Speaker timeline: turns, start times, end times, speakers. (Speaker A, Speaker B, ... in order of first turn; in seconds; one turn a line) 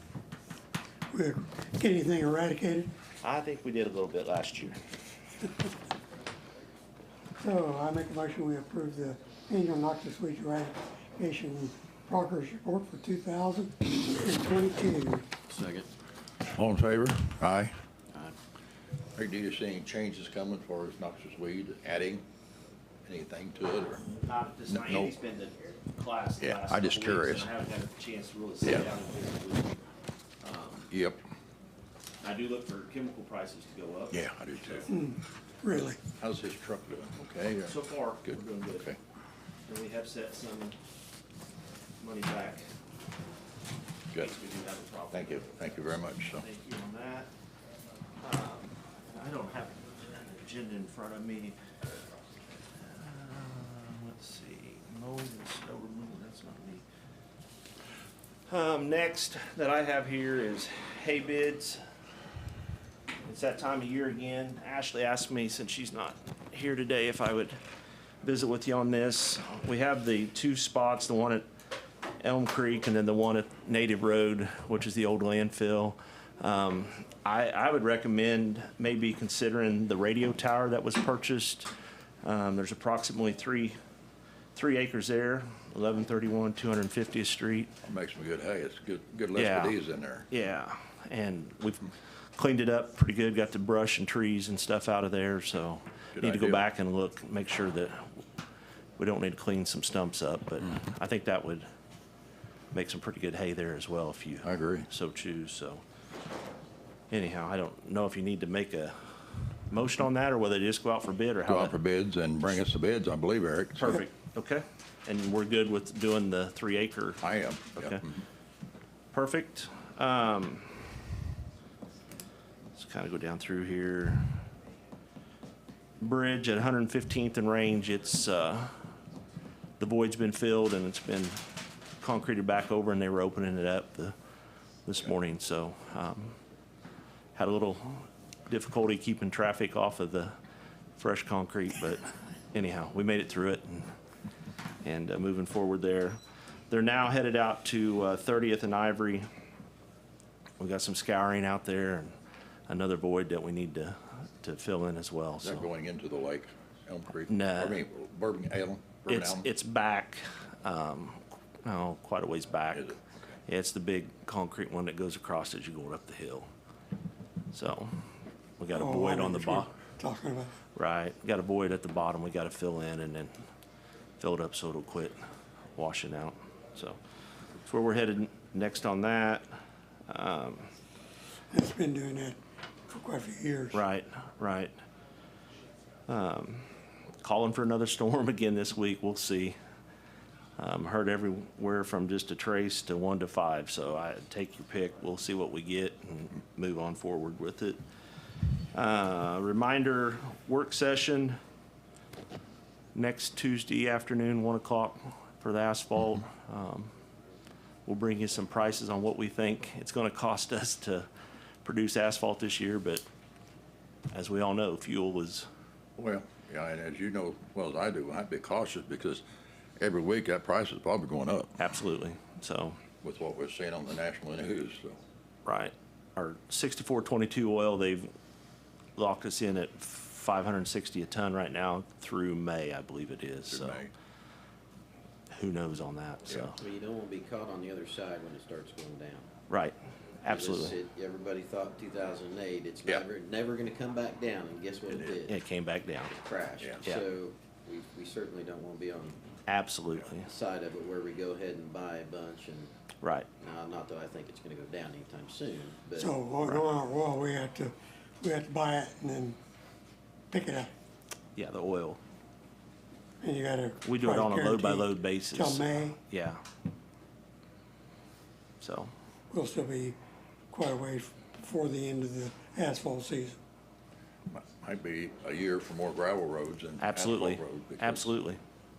Speaker A: 1.1-2.9
Speaker B: 3.2-4.8
Speaker A: 7.4-15.3
Speaker C: 15.5-15.9
Speaker D: 16.6-17.8
Speaker D: 19.2-22.2
Speaker D: 23.1-24.1
Speaker B: 24.1-29.8
Speaker D: 24.7-25.1
Speaker D: 26.4-27.5
Speaker B: 30.4-30.9
Speaker D: 30.9-31.2
Speaker B: 32.2-34.9
Speaker D: 34.1-34.9
Speaker A: 34.9-36.0
Speaker D: 35.9-37.8
Speaker B: 37.7-38.9
Speaker D: 38.3-39.0
Speaker B: 39.7-40.8
Speaker B: 42.0-42.7
Speaker B: 44.2-45.6
Speaker D: 45.1-46.5
Speaker B: 46.4-47.3
Speaker B: 48.2-51.6
Speaker B: 52.8-56.8
Speaker B: 58.5-61.8
Speaker B: 63.2-67.6
Speaker B: 68.2-71.5
Speaker B: 72.2-81.7
Speaker B: 82.2-83.8
Speaker B: 84.5-87.7
Speaker D: 87.8-90.3
Speaker B: 89.4-89.8
Speaker B: 90.3-98.2
Speaker D: 96.2-96.7
Speaker B: 99.0-101.7
Speaker B: 102.7-105.8
Speaker D: 104.4-104.9
Speaker B: 107.1-109.0
Speaker B: 109.7-111.8
Speaker D: 111.5-114.0
Speaker B: 113.8-117.2
Speaker D: 117.2-118.2
Speaker B: 117.8-118.0
Speaker B: 119.1-120.8
Speaker B: 122.8-124.3
Speaker B: 126.0-128.8
Speaker B: 129.8-131.4
Speaker B: 132.0-134.1
Speaker B: 134.9-136.4
Speaker B: 137.4-140.3
Speaker B: 141.0-143.9
Speaker B: 144.8-146.2
Speaker B: 146.7-149.3
Speaker B: 150.6-152.1
Speaker B: 152.7-155.7
Speaker D: 155.4-159.5
Speaker B: 157.3-157.8
Speaker B: 159.1-162.9
Speaker D: 162.7-163.1
Speaker B: 163.5-166.5
Speaker B: 167.5-167.9
Speaker B: 168.6-169.7
Speaker A: 168.7-170.5
Speaker B: 170.8-173.3
Speaker B: 174.2-175.2
Speaker B: 175.8-177.0
Speaker B: 177.7-179.5
Speaker B: 180.1-180.7
Speaker A: 181.5-183.8
Speaker B: 183.7-184.7
Speaker B: 186.1-186.7
Speaker B: 187.2-189.6
Speaker B: 190.6-197.8
Speaker B: 198.7-201.4
Speaker B: 202.9-206.9
Speaker B: 207.9-211.1
Speaker B: 211.7-213.0
Speaker B: 214.1-215.5
Speaker D: 216.0-219.2
Speaker D: 219.8-221.6
Speaker B: 221.6-222.8
Speaker D: 223.0-225.0
Speaker B: 225.4-228.1
Speaker B: 229.0-233.8
Speaker D: 233.5-233.9
Speaker B: 235.3-236.6
Speaker C: 236.6-239.3
Speaker B: 239.5-240.8
Speaker C: 240.3-245.3
Speaker D: 244.9-245.2
Speaker B: 245.3-246.2
Speaker C: 246.2-249.2
Speaker B: 249.5-250.3
Speaker C: 250.2-252.7
Speaker B: 253.0-253.3
Speaker C: 253.4-256.1
Speaker A: 256.0-259.4
Speaker A: 260.3-260.7
Speaker B: 261.4-262.0
Speaker A: 263.2-266.0
Speaker B: 263.8-266.4
Speaker B: 268.6-268.9
Speaker A: 269.3-270.0
Speaker A: 270.5-273.4
Speaker D: 274.3-278.1
Speaker B: 276.8-278.4